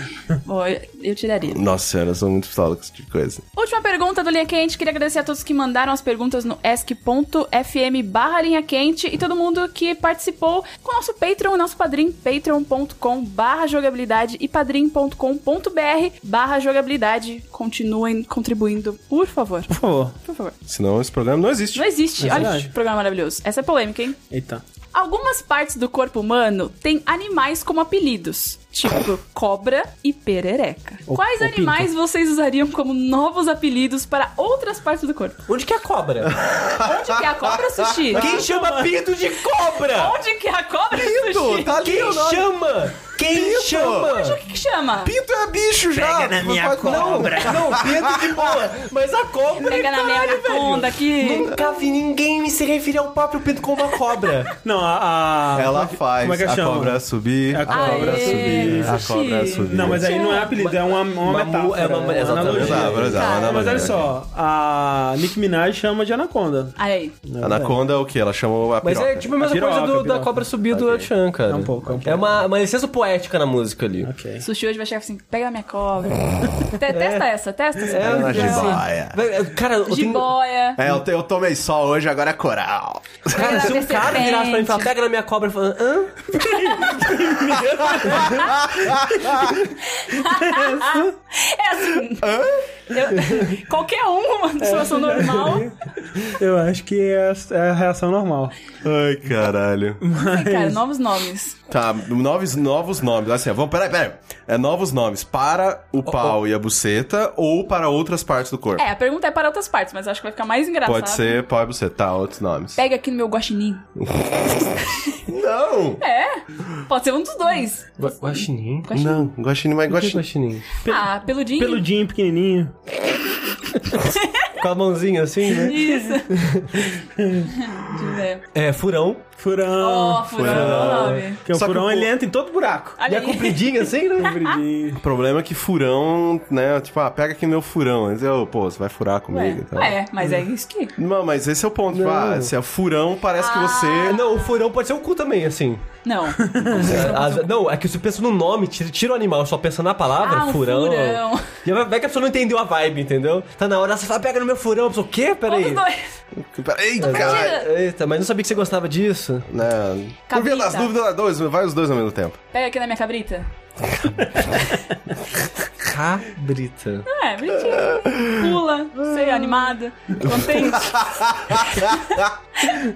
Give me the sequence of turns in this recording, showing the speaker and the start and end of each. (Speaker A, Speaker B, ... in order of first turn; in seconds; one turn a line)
Speaker A: 0.3-1.6
Speaker B: 1.5-3.4
Speaker A: 3.5-19.7
Speaker C: 19.7-20.2
Speaker A: 20.2-20.5
Speaker B: 20.6-21.9
Speaker A: 21.7-24.2
Speaker D: 22.2-22.6
Speaker C: 22.2-22.7
Speaker C: 24.3-24.6
Speaker A: 24.9-35.5
Speaker C: 31.1-31.9
Speaker D: 35.5-36.4
Speaker B: 36.3-38.2
Speaker A: 36.8-38.4
Speaker D: 38.1-40.2
Speaker C: 38.1-38.9
Speaker A: 39.8-41.8
Speaker B: 40.9-42.5
Speaker D: 41.8-44.4
Speaker B: 43.2-44.1
Speaker A: 43.8-45.1
Speaker B: 45.0-48.7
Speaker C: 46.0-47.8
Speaker D: 46.8-54.5
Speaker A: 49.6-51.9
Speaker B: 51.3-51.6
Speaker C: 54.6-59.0
Speaker B: 55.5-60.3
Speaker A: 57.7-60.6
Speaker D: 58.1-59.8
Speaker C: 59.6-67.8
Speaker D: 60.4-63.9
Speaker B: 62.3-64.1
Speaker A: 63.1-63.7
Speaker A: 66.8-67.2
Speaker B: 67.4-69.3
Speaker D: 68.8-74.1
Speaker C: 69.4-70.5
Speaker B: 70.7-71.1
Speaker C: 71.5-72.2
Speaker C: 74.0-74.5
Speaker A: 74.4-78.9
Speaker D: 76.9-80.3
Speaker B: 78.0-79.2
Speaker A: 79.9-80.8
Speaker B: 80.8-83.8
Speaker D: 83.3-88.4
Speaker A: 83.3-84.9
Speaker A: 86.3-87.0
Speaker C: 86.4-88.4
Speaker B: 87.6-89.6
Speaker A: 89.8-95.7
Speaker C: 90.2-91.1
Speaker B: 92.1-93.4
Speaker C: 94.6-98.5
Speaker B: 98.8-100.0
Speaker C: 100.0-100.8
Speaker A: 100.2-101.6
Speaker B: 101.7-108.8
Speaker D: 106.0-106.4
Speaker A: 108.8-111.4
Speaker B: 110.8-112.8
Speaker A: 112.8-113.8
Speaker B: 114.0-116.0
Speaker A: 116.0-119.3
Speaker D: 118.0-118.9
Speaker B: 118.9-120.2
Speaker D: 119.9-120.7
Speaker C: 120.8-122.7
Speaker A: 120.8-121.8
Speaker A: 123.8-124.5
Speaker D: 124.6-127.0
Speaker A: 125.5-126.3
Speaker C: 127.2-127.5
Speaker A: 127.4-128.4
Speaker D: 128.5-129.2
Speaker C: 129.4-133.0
Speaker A: 129.8-131.4
Speaker B: 130.3-131.2
Speaker D: 130.4-132.1
Speaker A: 133.0-134.6
Speaker D: 133.1-134.6
Speaker C: 134.3-135.0
Speaker B: 135.0-140.0
Speaker A: 139.3-140.9
Speaker B: 141.0-144.2
Speaker D: 141.9-142.5
Speaker A: 143.3-144.6
Speaker D: 144.0-145.8
Speaker A: 146.0-147.5
Speaker C: 146.4-146.9
Speaker B: 146.7-147.1
Speaker D: 146.7-155.8
Speaker A: 150.2-151.5
Speaker A: 155.5-156.1
Speaker B: 156.3-157.5
Speaker A: 157.0-157.7
Speaker D: 157.0-159.5
Speaker B: 159.5-162.4
Speaker A: 160.3-160.9
Speaker A: 162.5-163.5
Speaker A: 164.5-164.8
Speaker D: 165.8-167.1
Speaker A: 167.0-172.0
Speaker B: 167.7-169.4
Speaker B: 170.2-172.3